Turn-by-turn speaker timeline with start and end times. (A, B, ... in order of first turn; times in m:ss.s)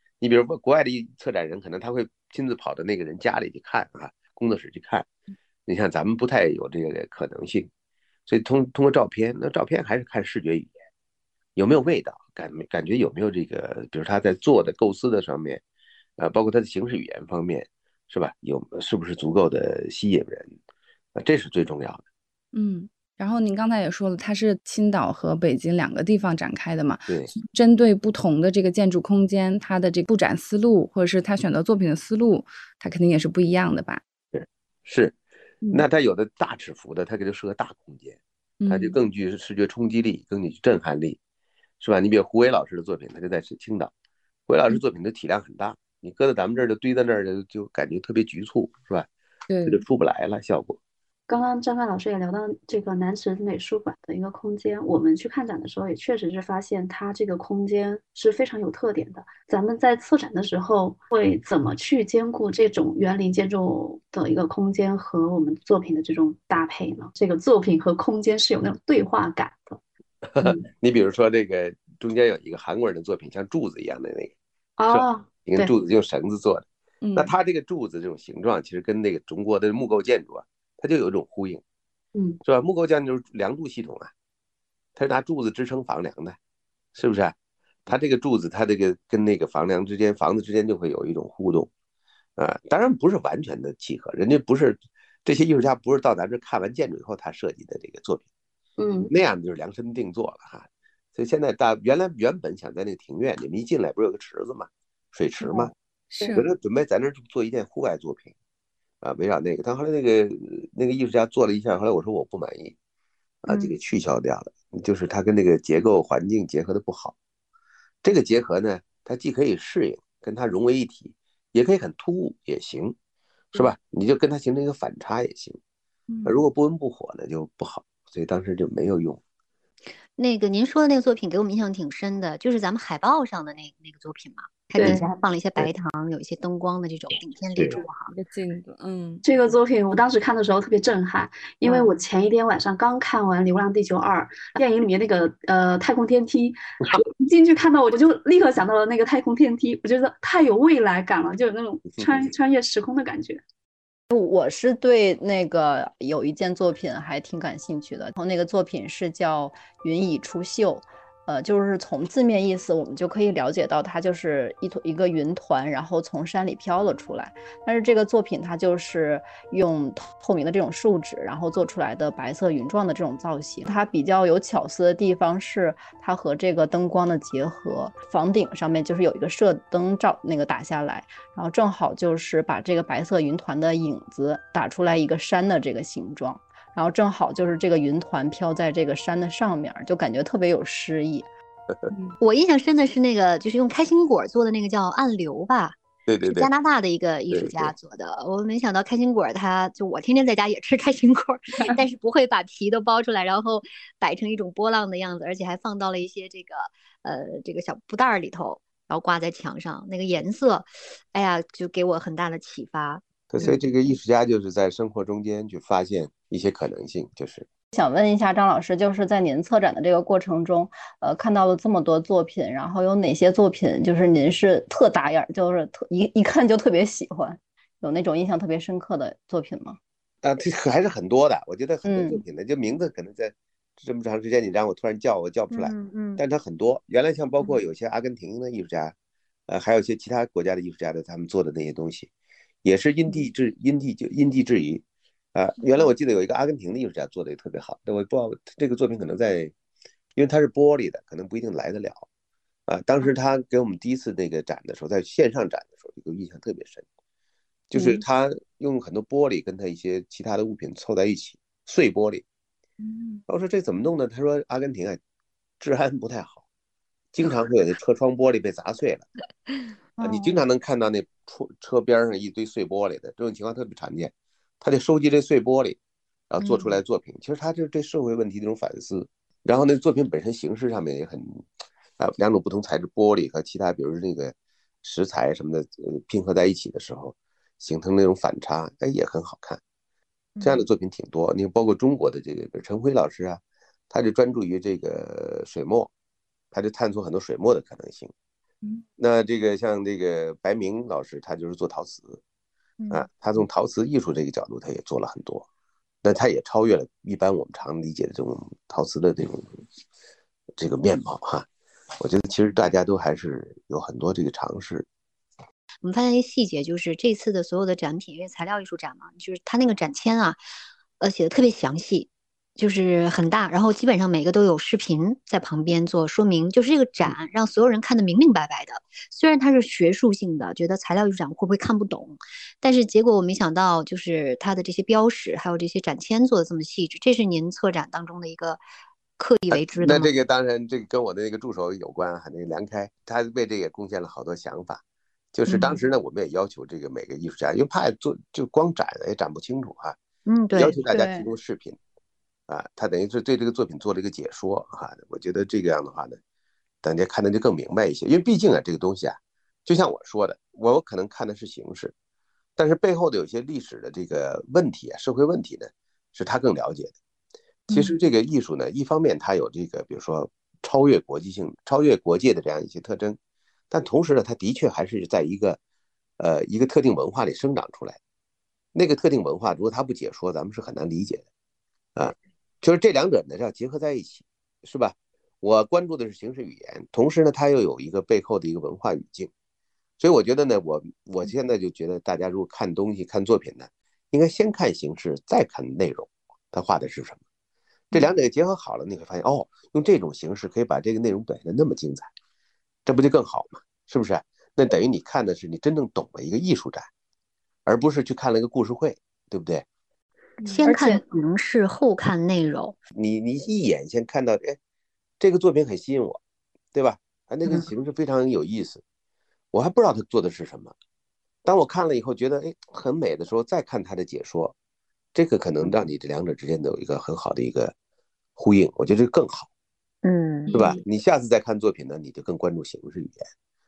0:00.2-0:05.1 A
0:05.6-0:07.7 A
0:08.3-0:10.7 A
0:11.6-0:15.6 A
0:16.2-0:20.5 A
0:21.1-0:22.0 A
0:22.5-0:34.0 B
0:34.3-0:35.2 A
0:35.7-0:41.2 A
0:38.6-0:39.0 B
0:41.8-0:43.9 A
0:44.5-0:49.1 A
0:49.5-0:49.8 B
0:49.6-0:50.8 A
0:51.3-1:09.6 C
1:10.2-1:14.3 A
1:14.8-1:15.7 C
1:14.9-1:21.6 A
1:22.1-1:22.4 C
1:22.4-1:24.1 A
1:25.0-1:26.4 A
1:27.0-1:27.4 A
1:27.9-1:31.7 A
1:32.4-1:38.2 A
1:38.8-1:39.1 C
1:39.1-1:45.7 A
1:46.1-1:46.5 B
1:46.3-1:48.3 A
1:49.0-1:52.8 A
1:53.4-1:57.1 A
1:58.0-2:03.0 A
2:03.5-2:05.6 A
2:06.1-2:06.4 B
2:06.2-2:09.2 A
2:10.2-2:17.9 D
2:14.8-2:15.0 C
2:17.8-2:19.2 B
2:19.2-2:33.4 C
2:34.1-3:11.3 E
3:11.9-3:12.2 B
3:12.2-3:33.0 D
3:16.1-3:16.5 A
3:17.3-3:17.7 A
3:33.3-3:37.5 A
3:37.7-3:49.8 E
3:50.2-3:59.0 A
3:51.9-3:52.2 E
3:55.5-3:56.2 D
3:59.5-4:02.1 A
4:02.6-4:04.8 A
4:05.4-4:09.5 A
4:10.2-4:12.1 A
4:12.7-4:16.8 A
4:17.7-4:22.2 A
4:22.8-4:23.2 B
4:23.3-4:25.0 A
4:25.6-4:26.4 A
4:27.1-4:29.1 A
4:30.0-4:35.8 A
4:36.3-4:41.4 A
4:36.4-4:36.8 D
4:42.0-4:49.6 A
4:50.4-4:50.6 D
4:50.4-4:55.9 A
4:56.5-4:58.1 A
4:59.0-5:02.2 A
5:02.8-5:03.1 D
5:02.9-5:05.5 A
5:06.0-5:09.6 A
5:10.6-5:11.5 A
5:12.0-5:14.9 A
5:15.8-5:20.4 D
5:21.0-5:38.6 D
5:39.2-5:40.1 D
5:39.5-5:44.8 A
5:45.3-5:50.0 A
5:45.5-5:45.8 D
5:50.3-5:50.8 D
5:50.6-5:51.8 A
5:50.9-5:51.3 E
5:52.5-5:56.2 A
5:56.8-6:01.9 A
6:02.6-6:07.0 A
6:07.7-6:08.0 B
6:07.7-6:13.2 A
6:13.7-6:15.6 A
6:16.2-6:18.0 A
6:18.8-6:21.3 A
6:22.0-6:29.3 A
6:30.0-6:37.2 A
6:37.9-6:42.1 A
6:42.9-6:46.9 A
6:47.6-6:49.6 A
6:50.4-6:52.8 D
6:50.6-6:51.0 E
6:53.0-6:54.6 A
6:55.2-6:56.2 A
6:56.7-6:58.8 A
6:59.5-7:00.7 A
7:01.4-7:04.6 A
7:05.1-7:07.7 A
7:08.4-7:09.5 A
7:10.0-7:10.5 D
7:10.5-7:10.8 B
7:10.5-7:13.3 A